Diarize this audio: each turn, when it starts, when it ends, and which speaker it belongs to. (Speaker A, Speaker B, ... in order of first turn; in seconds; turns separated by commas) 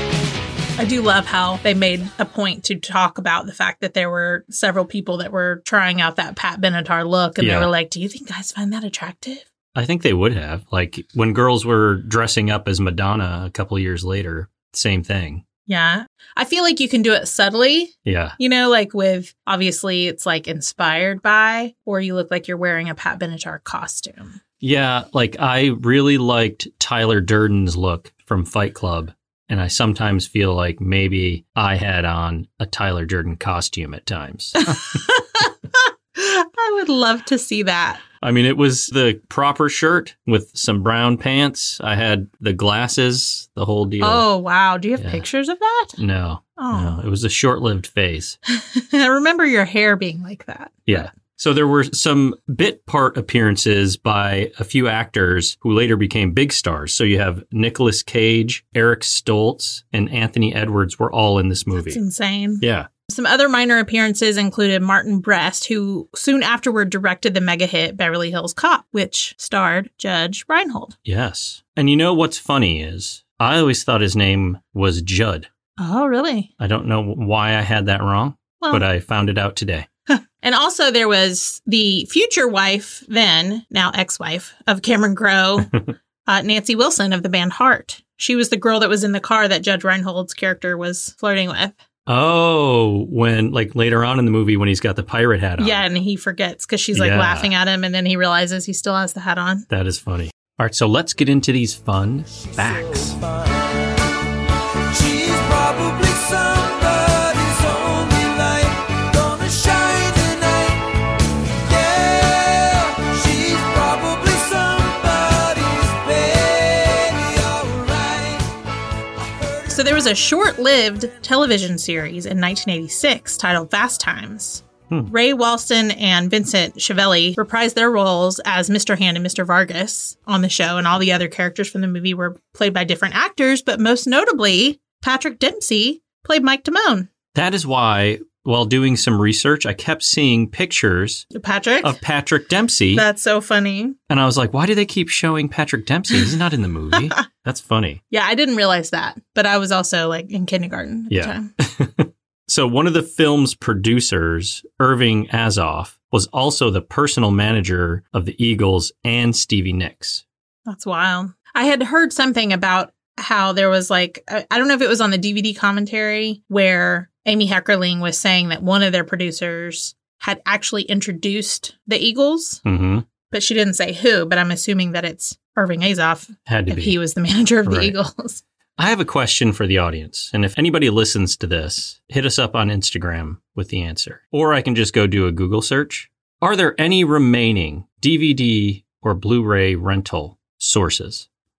Speaker A: 0.8-9.4, Speaker B: 7.4-7.7, Speaker B: 9.7-15.4, Speaker A: 15.7-24.4, Speaker B: 18.0-18.4, Speaker B: 24.6-34.7, Speaker A: 34.6-38.0, Speaker B: 38.2-44.2, Speaker A: 44.0-46.0, Speaker B: 45.0-45.2, Speaker B: 46.0-48.4, Speaker A: 46.6-47.0, Speaker A: 48.5-51.1, Speaker B: 50.9-62.0, Speaker A: 61.8-71.0, Speaker B: 62.6-62.9, Speaker B: 71.0-75.5, Speaker A: 75.8-76.5, Speaker B: 76.6-79.9, Speaker A: 80.1-91.8, Speaker B: 92.1-95.8, Speaker A: 95.6-99.7, Speaker B: 96.9-97.5, Speaker B: 99.7-103.2, Speaker C: 102.3-103.8, Speaker C: 104.9-111.1, Speaker C: 111.6-118.5, Speaker C: 119.2-119.7, Speaker A: 119.7-137.1, Speaker B: 137.3-141.3, Speaker A: 141.3-142.0, Speaker B: 141.8-143.0, Speaker A: 142.9-144.0, Speaker B: 144.1-148.0, Speaker A: 148.1-151.5, Speaker B: 151.1-160.2, Speaker A: 160.7-172.6, Speaker B: 172.6-173.1, Speaker A: 173.3-178.4, Speaker B: 176.5-177.0, Speaker B: 177.6-177.9, Speaker B: 178.8-191.2